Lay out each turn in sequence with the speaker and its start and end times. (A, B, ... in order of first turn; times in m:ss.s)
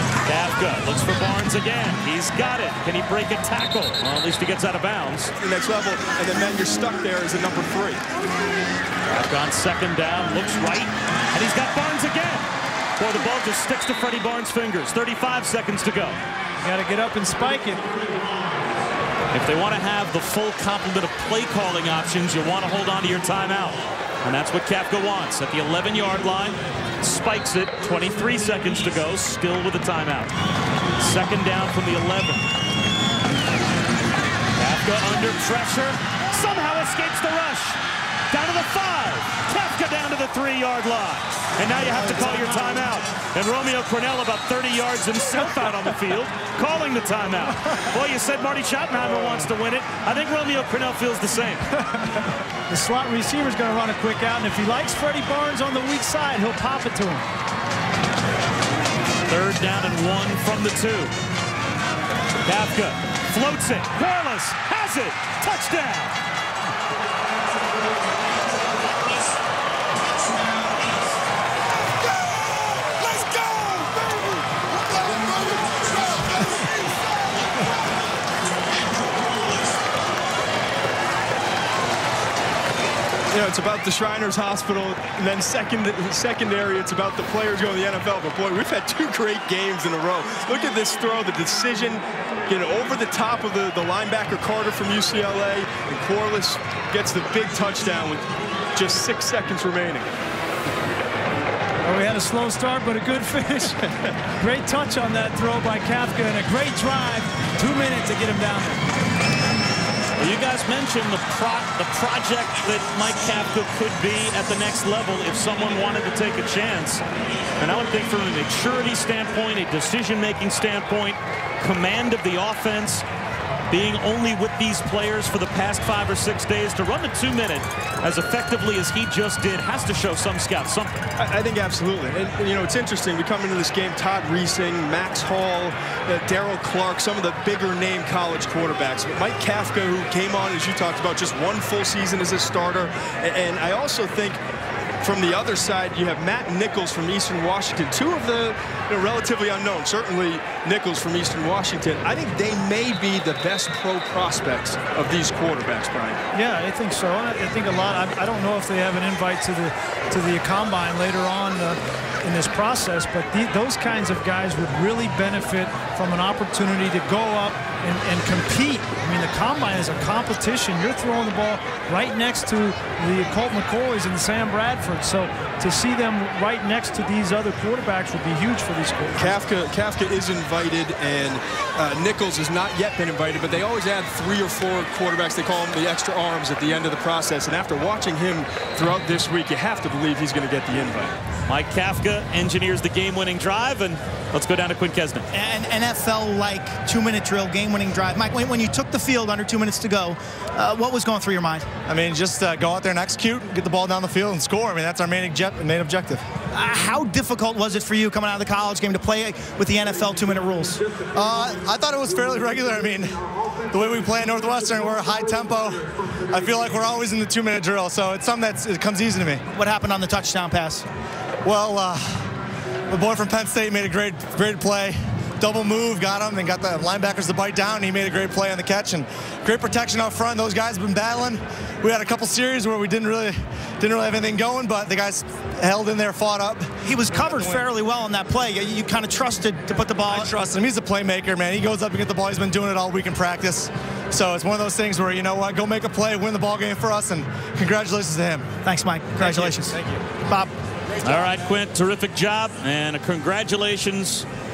0:00.3-0:05.3 A
0:05.4-0:08.0 B
0:09.1-0:16.2 A
0:16.6-0:17.8 C
0:19.3-0:30.3 A
0:31.0-0:32.5 A
0:34.6-0:37.8 A
0:38.3-0:51.7 A
0:52.0-0:57.3 C
0:59.3-1:01.1 A
1:02.4-1:06.2 A
1:12.9-1:14.3 B
1:16.3-1:16.7 B
1:23.3-1:40.1 B
1:41.8-1:48.8 C
1:50.2-1:57.0 A
1:57.6-2:03.1 A
2:03.7-2:11.0 A
2:11.2-2:24.4 B
2:25.0-2:36.2 B
2:36.3-2:59.4 C
2:59.2-3:11.2 B
3:11.5-3:15.3 A
3:15.3-3:21.7 D
3:21.9-3:26.2 E
3:26.5-3:30.8 D
3:31.1-3:33.2 E
3:33.7-3:39.4 E
3:39.5-3:40.9 D
3:41.4-3:42.3 E
3:42.9-3:57.6 E
3:56.8-4:00.3 D
4:00.1-4:08.5 E
4:08.6-4:10.5 D
4:09.2-4:10.0 B
4:11.0-4:14.3 A